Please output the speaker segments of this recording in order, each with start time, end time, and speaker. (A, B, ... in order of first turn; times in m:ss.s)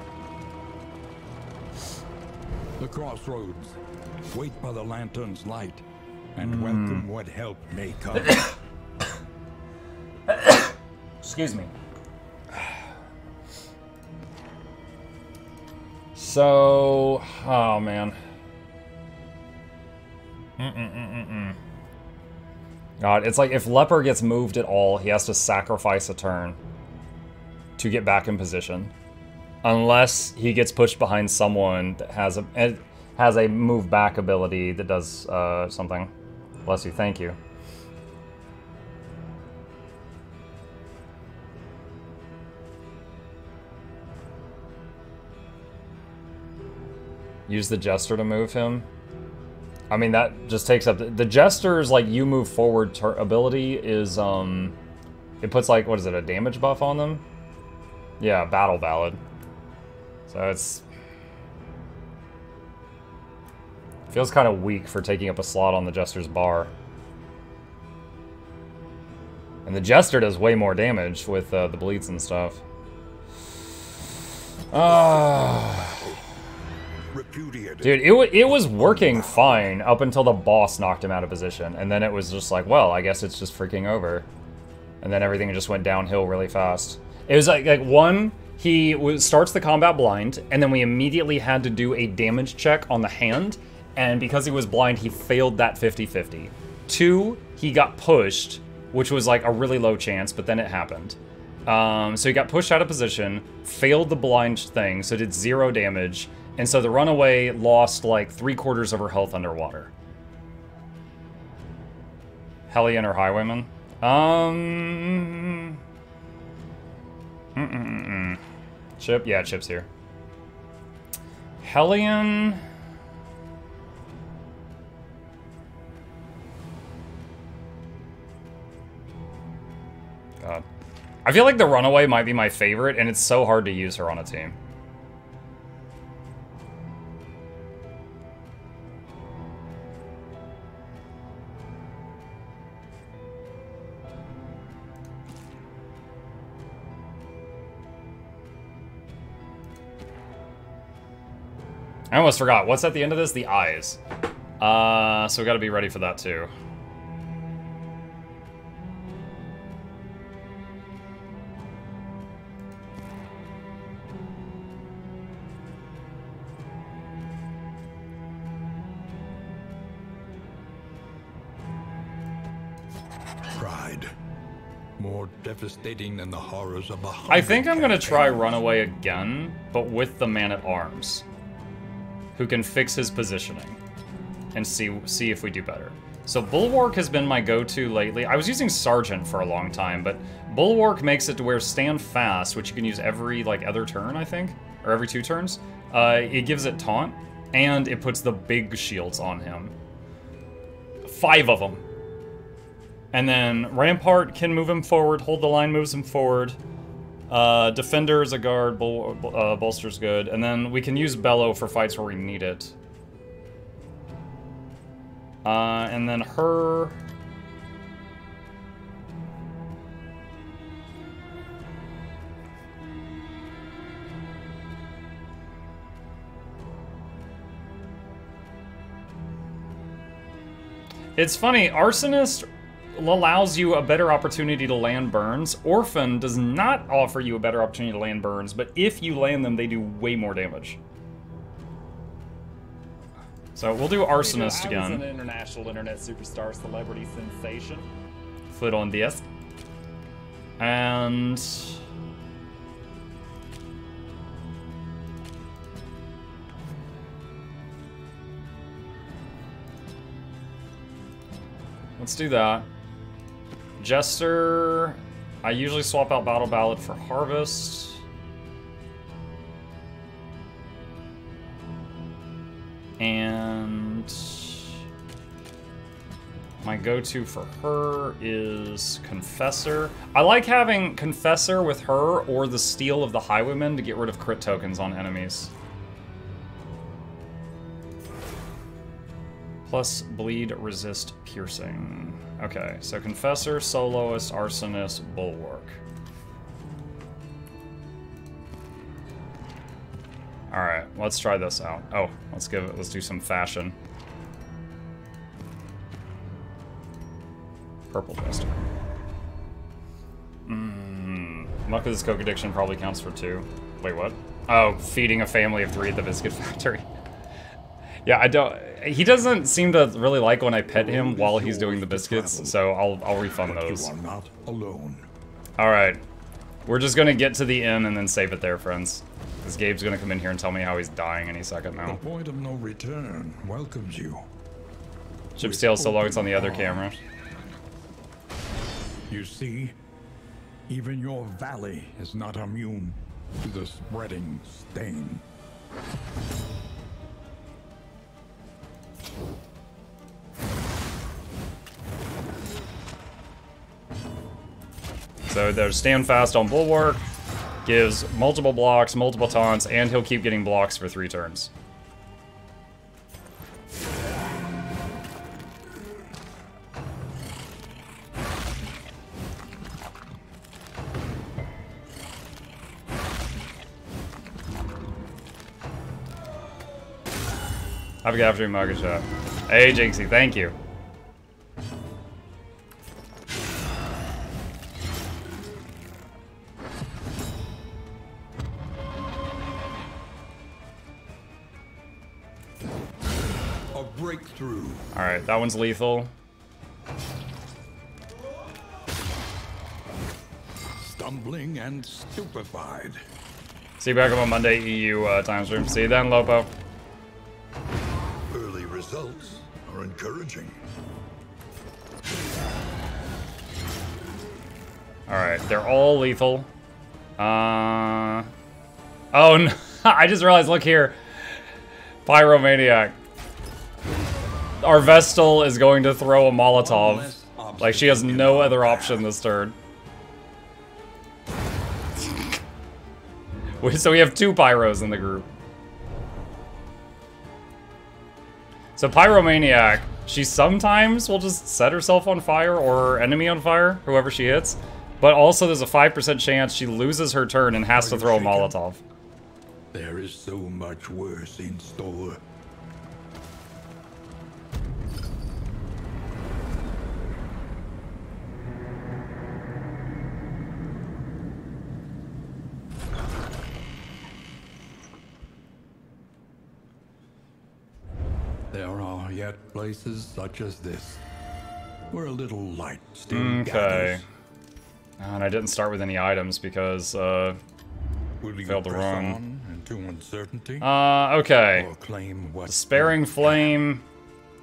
0:02.8-0:03.8 A
0:04.3-0:08.5 A
0:06.4-0:07.0 B
0:08.2-0:08.5 B
0:10.3-0:11.7 B
0:16.1-0:18.2 B
0:20.6-0:21.6 B
0:23.0-0:26.6 B
0:27.8-0:28.9 B
0:29.6-0:36.1 B
0:36.6-0:37.4 B
0:47.5-0:48.9 B
0:49.9-0:54.8 B
0:55.4-0:57.2 B
0:58.2-0:59.2 B
1:00.3-1:00.8 B
1:04.1-1:06.7 B
1:09.6-1:12.6 B
1:14.7-1:16.0 B
1:14.9-1:15.3 A
1:15.8-1:16.2 A
1:17.1-1:19.6 A
1:17.8-1:24.2 B
1:25.0-1:49.9 B
1:52.7-1:55.8 B
1:57.6-1:58.4 B
1:59.0-1:59.9 B
2:01.6-2:02.6 B
2:11.2-2:14.6 B
2:32.1-2:34.0 B
2:34.6-2:36.5 B
2:53.5-2:54.1 A
2:55.0-2:58.6 A
2:57.3-3:01.2 B
3:02.3-3:03.8 B
3:04.5-3:19.7 B
3:21.0-3:21.8 B
3:23.1-3:26.6 B
3:27.3-3:32.7 B
3:35.4-3:37.0 B
3:51.2-4:00.8 B
4:03.5-4:05.0 B
4:04.1-4:07.8 C
4:08.5-4:09.2 B
4:10.6-4:11.8 B
4:22.0-4:22.7 B
4:23.8-4:28.0 B
4:33.0-4:34.6 B
4:36.6-4:45.5 B
4:49.6-4:55.8 B
5:00.5-5:03.8 B
5:07.9-5:08.6 B
5:10.5-5:16.8 B
5:18.0-5:23.9 B
5:20.7-5:22.8 A
5:23.4-5:25.0 A
5:25.6-5:26.0 B
5:26.6-5:32.0 B
5:31.8-5:34.2 A
5:35.4-5:37.0 B
5:35.4-5:37.0 A
5:39.1-5:39.7 A
5:40.7-5:45.2 A
5:55.3-5:57.0 B
5:57.6-6:01.5 B
6:18.0-6:20.5 B
6:33.7-6:34.8 A
6:34.9-6:36.1 B
6:40.8-6:43.0 A
6:43.8-6:46.5 B
6:48.3-6:50.5 A
6:55.1-6:56.5 B
6:57.2-6:58.3 B
6:59.1-7:01.0 B
7:02.0-7:02.9 B
7:04.6-7:09.5 B
7:06.5-7:09.1 A
7:13.6-7:15.3 B
7:18.8-7:28.8 B
7:27.7-7:28.6 A
7:29.7-7:32.2 A
7:48.5-7:51.0 A
7:51.9-7:54.0 A
7:53.1-7:54.0 B
7:55.0-7:57.4 B
7:58.2-8:00.7 A
7:58.4-7:59.2 B
8:00.6-8:01.7 B
8:01.5-8:03.4 A
8:02.5-8:03.8 B